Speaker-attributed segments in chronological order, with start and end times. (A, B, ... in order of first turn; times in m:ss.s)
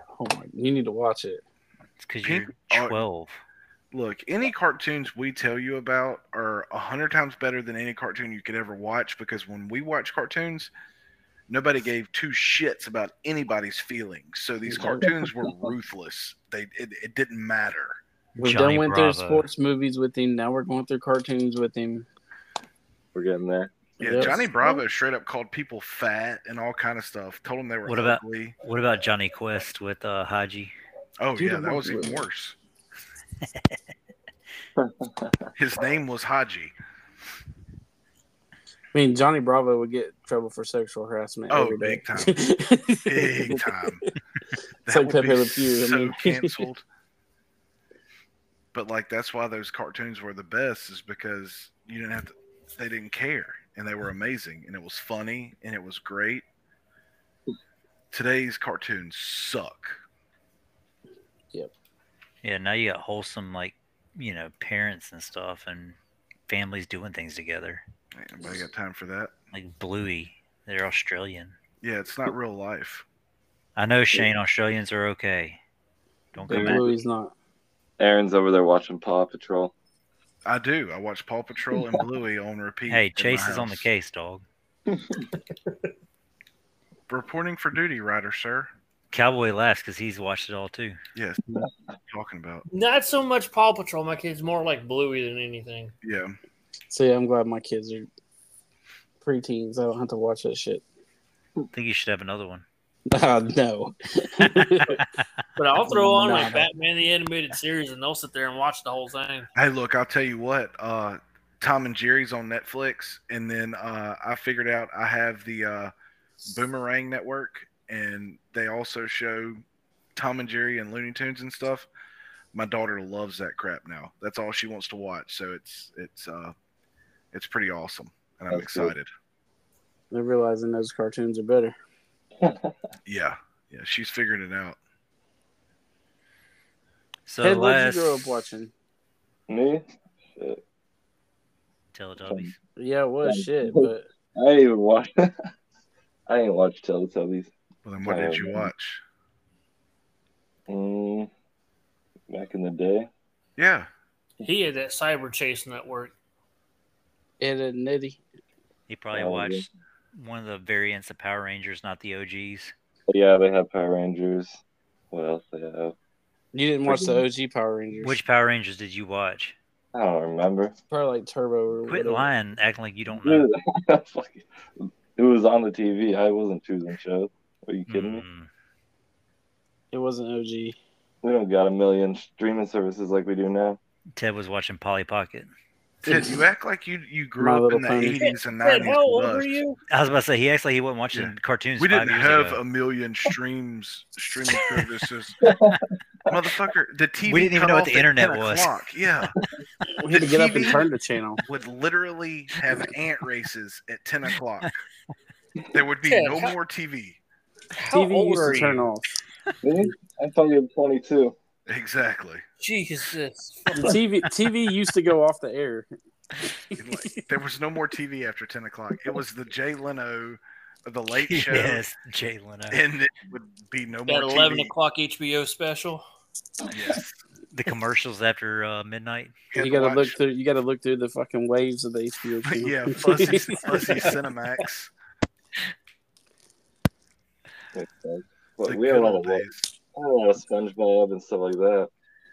0:00.2-0:01.4 A
0:02.0-0:03.4 B
0:02.2-0:03.0 C
0:03.9-0:10.7 C
0:11.5-0:18.0 C
0:14.7-0:15.2 A
0:18.4-0:19.5 B
0:18.4-0:22.1 A
0:23.1-0:23.7 D
0:24.0-0:24.4 A
0:24.0-0:28.6 C
0:27.8-0:30.7 B
0:31.2-0:32.6 C
0:31.4-0:32.2 A
0:34.8-0:35.3 D
0:35.6-0:36.7 C
0:38.9-0:43.7 A
0:41.5-0:42.4 C
0:43.0-0:44.0 C
0:44.9-0:46.8 C
0:44.9-0:46.6 A
0:48.7-0:56.4 C
0:58.1-1:00.0 C
1:02.4-1:06.0 B
1:06.5-1:07.8 B
1:08.1-1:09.3 C
1:09.5-1:11.6 B
1:11.8-1:13.0 C
1:13.8-1:15.6 B
1:16.3-1:16.9 B
1:16.5-1:16.9 D
1:16.5-1:17.3 A
1:18.0-1:19.7 D
1:20.4-1:23.9 C
1:22.9-1:24.4 B
1:24.9-1:25.3 D
1:27.1-1:28.7 C
1:29.1-1:31.0 B
1:31.2-1:32.6 C
1:32.7-1:35.9 E
1:36.0-1:36.4 C
1:36.9-1:38.1 A
1:39.2-1:40.8 A
1:41.7-1:42.6 B
1:43.1-1:45.0 A
1:45.6-1:49.5 E
1:45.9-1:46.7 A
1:49.6-1:55.9 C
1:56.4-1:59.6 C
2:00.2-2:01.9 C
2:02.5-2:06.6 C
2:07.3-2:09.1 C
2:08.5-2:08.9 D
2:10.1-2:11.8 A
2:12.4-2:12.7 D
2:13.1-2:14.8 C
2:17.3-2:18.4 B
2:17.4-2:18.7 A
2:19.5-2:20.6 D
2:21.9-2:22.6 B
2:22.2-2:22.5 D
2:22.8-2:24.1 A
2:23.2-2:25.4 D
2:26.3-2:28.7 D
2:27.8-2:29.0 C
2:30.7-2:31.3 D
2:32.3-2:33.1 D
2:33.6-2:33.9 C
2:34.4-2:36.1 E
2:37.4-2:38.2 A
2:38.9-2:42.7 B
2:39.1-2:39.6 D
2:43.1-2:44.6 D
2:45.1-2:45.9 D
2:46.5-2:48.2 A
2:46.9-2:47.2 D
2:48.0-2:49.6 B
2:49.9-2:50.7 D
2:50.9-2:52.3 A
2:51.9-2:53.5 B
2:53.1-2:58.2 D
2:57.9-2:58.5 B
2:59.9-3:00.8 A
3:01.2-3:03.8 D
3:04.2-3:05.5 B
3:06.0-3:09.6 C
3:07.4-3:08.2 A
3:08.1-3:09.8 E
3:09.9-3:12.6 B
3:11.1-3:15.4 C
3:15.4-3:15.8 D
3:16.3-3:19.4 C
3:17.3-3:18.7 B
3:20.0-3:21.4 A
3:20.1-3:20.9 C
3:21.4-3:24.7 C
3:25.7-3:27.2 C
3:26.1-3:26.5 E
3:27.8-3:28.9 E
3:27.9-3:29.2 A
3:29.6-3:31.4 D
3:31.7-3:32.4 C
3:32.6-3:34.0 E
3:33.8-3:35.9 A
3:36.7-3:37.2 A
3:36.8-3:41.8 C
3:41.3-3:42.8 B
3:42.7-3:44.7 C
3:44.1-3:46.0 E
3:46.7-3:47.2 C
3:47.5-3:49.4 B
3:49.5-3:50.2 C
3:49.6-3:54.1 A
3:52.4-3:54.9 C
3:57.8-4:01.9 D
3:58.7-3:59.7 C